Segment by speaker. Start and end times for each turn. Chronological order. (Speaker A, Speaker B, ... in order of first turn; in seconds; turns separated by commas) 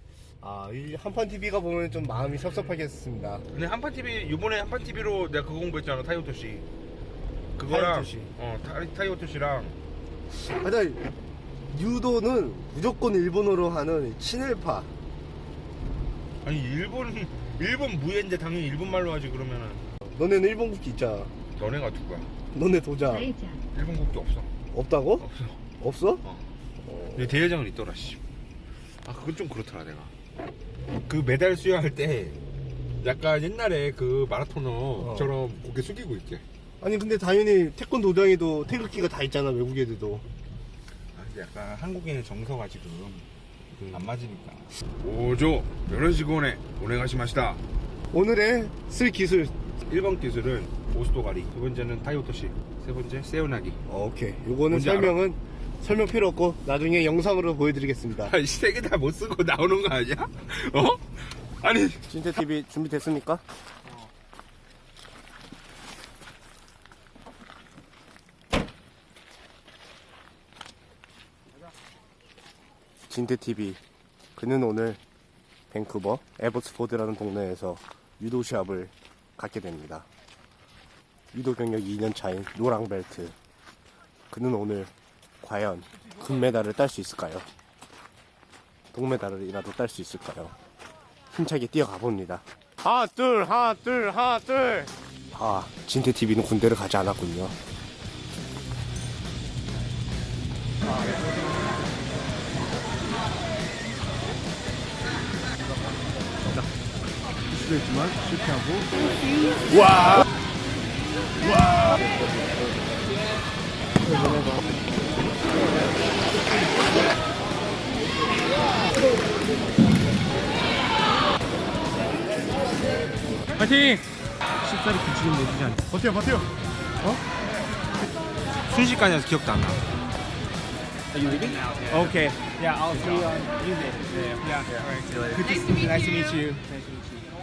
Speaker A: 0.4-3.4, Speaker B: 3.5-6.7, Speaker B: 7.6-9.8, Speaker A: 7.6-8.3, Speaker A: 10.3-11.1, Speaker A: 11.7-14.9, Speaker B: 16.4-19.9, Speaker A: 20.1-21.3, Speaker B: 21.5-22.3, Speaker A: 22.5-23.5, Speaker B: 23.7-24.5, Speaker A: 24.7-25.2, Speaker B: 25.2-25.6, Speaker A: 25.8-26.2, Speaker B: 26.2-26.5, Speaker A: 26.9-27.2, Speaker B: 27.1-28.2, Speaker B: 29.0-30.1, Speaker B: 31.1-32.4, Speaker B: 33.0-36.4, Speaker A: 35.0-35.3, Speaker A: 36.8-40.2, Speaker B: 41.1-43.3, Speaker B: 43.9-47.6, Speaker A: 48.1-49.5, Speaker B: 49.9-53.8, Speaker A: 53.9-58.3, Speaker B: 54.7-55.2, Speaker B: 58.2-62.0, Speaker A: 62.1-63.4, Speaker A: 73.1-73.8, Speaker A: 74.3-75.0, Speaker A: 75.7-80.1, Speaker A: 81.3-83.3, Speaker A: 84.3-87.5, Speaker A: 88.9-90.5, Speaker A: 91.3-97.5, Speaker A: 107.5-108.9, Speaker C: 123.6-124.0, Speaker C: 124.7-125.3, Speaker B: 125.3-125.9, Speaker C: 125.9-126.3, Speaker B: 128.7-129.8, Speaker C: 131.1-137.2, Speaker B: 131.9-133.3, Speaker B: 134.4-135.6